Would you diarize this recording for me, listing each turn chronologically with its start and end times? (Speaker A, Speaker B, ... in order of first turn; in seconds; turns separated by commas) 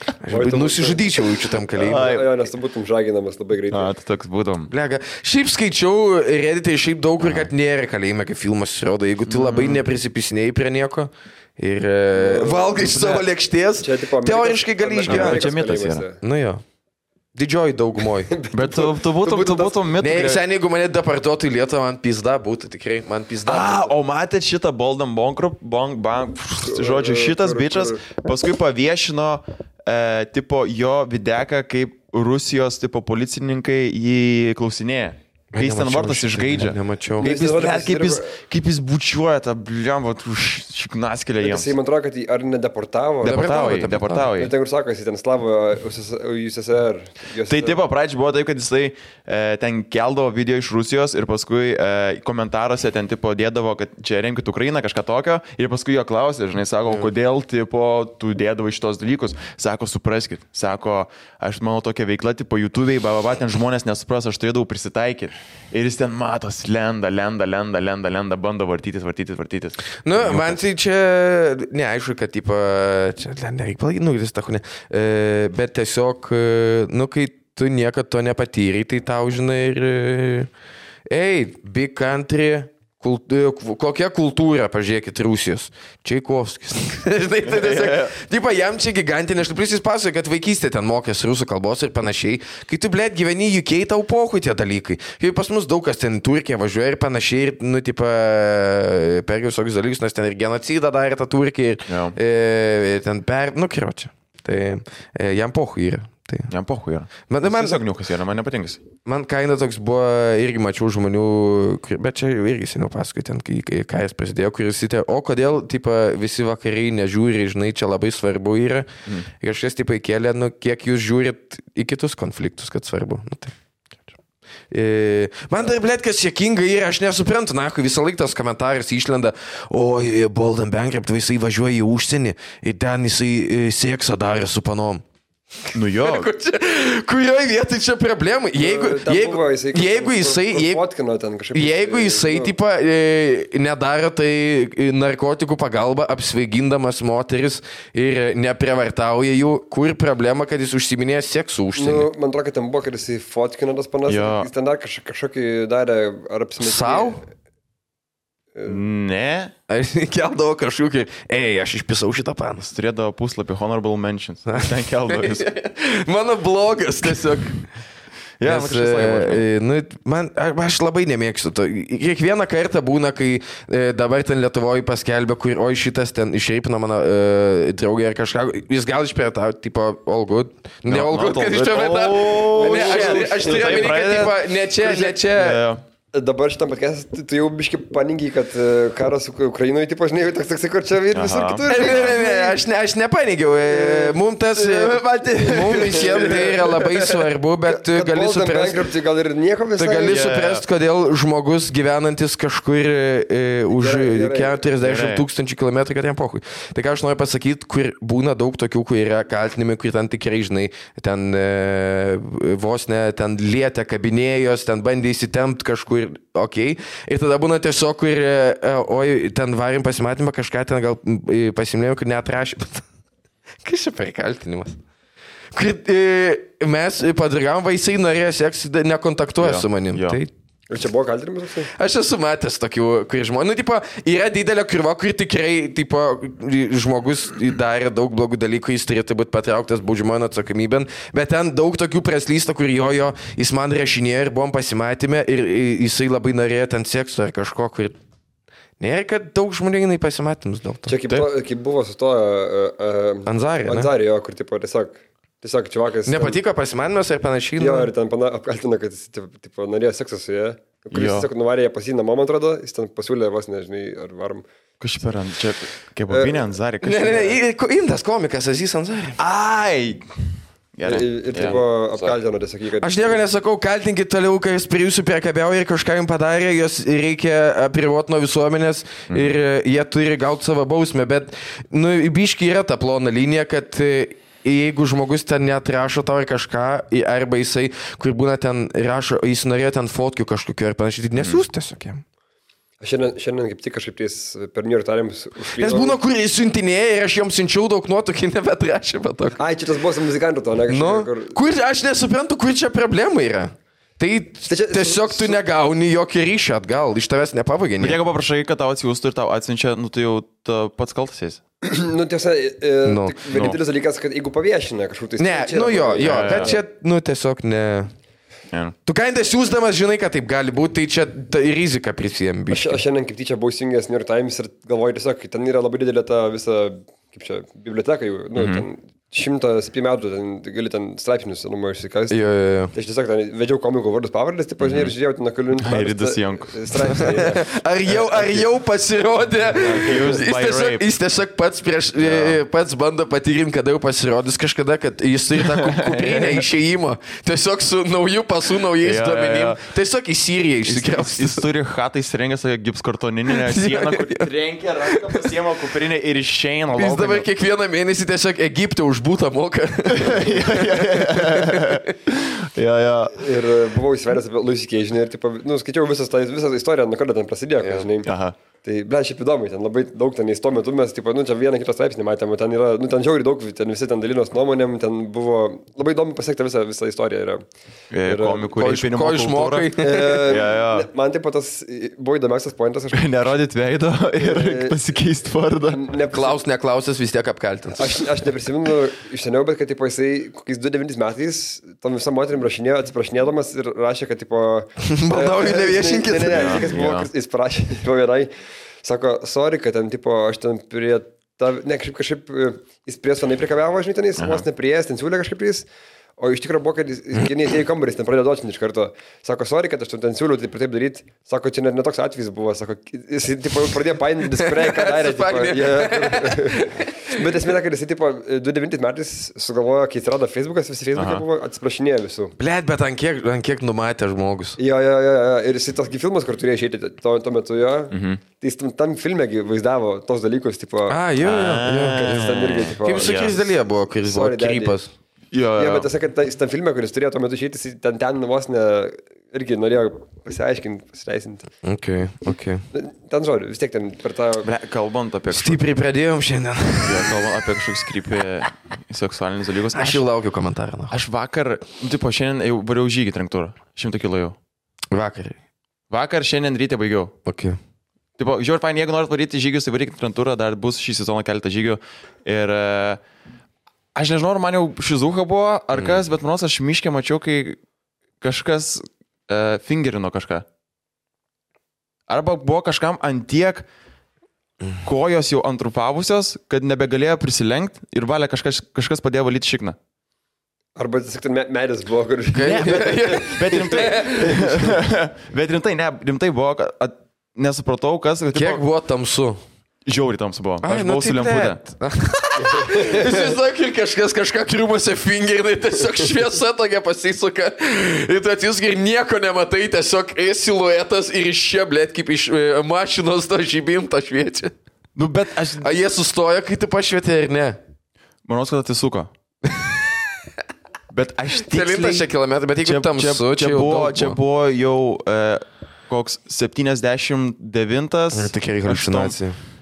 Speaker A: 0.2-2.1, Speaker B: 0.3-3.9, Speaker C: 1.8-2.3, Speaker C: 3.7-4.7, Speaker A: 4.7-15.5, Speaker C: 7.2-7.5, Speaker C: 9.3-9.8, Speaker B: 12.1-13.2, Speaker B: 13.8-16.2, Speaker C: 15.1-16.0, Speaker A: 16.2-16.6, Speaker A: 17.3-18.3, Speaker B: 18.3-19.9, Speaker C: 18.5-20.4, Speaker A: 20.0-23.9, Speaker C: 23.4-41.7, Speaker B: 26.6-28.0, Speaker A: 35.5-37.3, Speaker B: 37.2-38.3, Speaker B: 41.4-47.8, Speaker A: 43.2-44.3, Speaker C: 43.2-44.5, Speaker C: 47.5-70.6, Speaker A: 70.0-80.5, Speaker A: 81.1-106.5, Speaker C: 87.4-88.1, Speaker C: 101.9-102.2, Speaker C: 106.5-108.8, Speaker A: 107.3-107.8, Speaker A: 109.0-123.5, Speaker A: 124.7-135.0, Speaker C: 135.7-136.3, Speaker A: 135.7-140.8, Speaker B: 138.6-142.5, Speaker A: 141.5-152.1, Speaker B: 151.8-157.2, Speaker C: 154.1-154.5, Speaker A: 156.6-157.2, Speaker C: 158.7-159.5, Speaker A: 159.7-162.7, Speaker C: 162.7-165.5, Speaker A: 164.5-167.6, Speaker C: 168.4-169.4, Speaker A: 168.4-185.6, Speaker C: 180.9-185.8, Speaker B: 182.2-184.1, Speaker B: 186.1-192.6, Speaker C: 191.1-192.1, Speaker A: 191.7-198.8, Speaker B: 193.7-194.2, Speaker C: 194.5-196.8, Speaker B: 195.5-200.3, Speaker A: 199.8-222.8, Speaker C: 200.1-200.6, Speaker B: 203.8-204.6, Speaker C: 204.8-205.2, Speaker A: 223.6-224.8, Speaker A: 225.5-230.3, Speaker C: 229.4-230.2, Speaker B: 230.7-231.7, Speaker A: 231.7-247.9, Speaker A: 248.8-251.0, Speaker B: 250.9-256.4, Speaker A: 253.2-253.9, Speaker A: 256.1-257.9, Speaker B: 257.6-264.4, Speaker C: 260.9-261.3, Speaker C: 264.8-267.3, Speaker B: 266.1-266.5, Speaker A: 266.8-269.2, Speaker B: 267.1-267.3, Speaker C: 269.2-270.0, Speaker C: 270.7-271.6, Speaker B: 270.8-273.2, Speaker A: 272.8-292.0, Speaker C: 279.1-279.3, Speaker C: 291.2-291.4, Speaker B: 292.8-296.0, Speaker A: 295.6-299.4, Speaker B: 299.4-301.4, Speaker A: 300.7-308.0, Speaker B: 304.5-305.4, Speaker C: 307.8-311.4, Speaker B: 311.6-316.6, Speaker A: 312.8-313.2, Speaker C: 313.3-313.6, Speaker A: 315.2-317.9, Speaker C: 316.0-316.5, Speaker A: 318.9-322.8, Speaker B: 322.5-332.2, Speaker C: 328.3-328.6, Speaker A: 332.1-332.7, Speaker B: 332.7-337.6, Speaker C: 334.6-334.9, Speaker C: 335.6-336.6, Speaker A: 336.9-351.4, Speaker C: 339.6-340.8, Speaker C: 342.0-342.4, Speaker C: 345.4-346.4, Speaker C: 348.8-349.6, Speaker C: 350.6-357.3, Speaker A: 353.3-354.3, Speaker A: 354.9-355.3, Speaker A: 356.8-361.9, Speaker C: 359.9-363.2, Speaker B: 363.1-368.1, Speaker A: 367.6-367.9, Speaker C: 368.0-368.3, Speaker B: 368.6-377.4, Speaker C: 377.9-380.9, Speaker B: 378.0-378.5, Speaker A: 378.5-380.4, Speaker B: 379.8-383.2, Speaker C: 382.9-385.9, Speaker B: 384.2-384.8, Speaker B: 385.7-386.4, Speaker A: 386.1-388.3, Speaker B: 387.7-398.3, Speaker A: 394.8-396.7, Speaker C: 396.3-397.1, Speaker B: 398.8-405.7, Speaker C: 404.2-404.4, Speaker B: 406.2-422.3, Speaker A: 414.4-417.3, Speaker C: 420.9-421.2, Speaker A: 422.4-424.6, Speaker B: 424.6-431.0, Speaker C: 427.9-428.2, Speaker A: 430.9-434.9, Speaker C: 431.2-433.3, Speaker B: 431.9-434.8, Speaker C: 435.3-435.9, Speaker B: 435.6-441.5, Speaker A: 441.6-442.6, Speaker B: 442.7-444.5, Speaker C: 444.4-445.6, Speaker A: 445.3-447.3, Speaker C: 446.8-450.0, Speaker A: 449.7-450.9, Speaker C: 450.9-454.4, Speaker A: 454.9-455.4, Speaker C: 455.9-457.1, Speaker A: 457.2-457.6, Speaker C: 458.2-463.0, Speaker C: 463.9-467.6, Speaker A: 465.8-466.0, Speaker C: 468.2-470.4, Speaker C: 472.1-473.6, Speaker C: 474.8-479.8, Speaker B: 480.8-484.6, Speaker A: 482.3-484.6, Speaker C: 482.4-488.6, Speaker A: 488.3-489.4, Speaker C: 489.9-491.6, Speaker A: 490.6-504.5, Speaker B: 492.4-493.1, Speaker C: 504.9-505.7, Speaker A: 505.6-507.6, Speaker C: 508.2-509.1, Speaker A: 509.4-509.9, Speaker C: 510.9-512.1, Speaker A: 511.4-514.2, Speaker C: 512.6-519.2, Speaker A: 518.1-519.4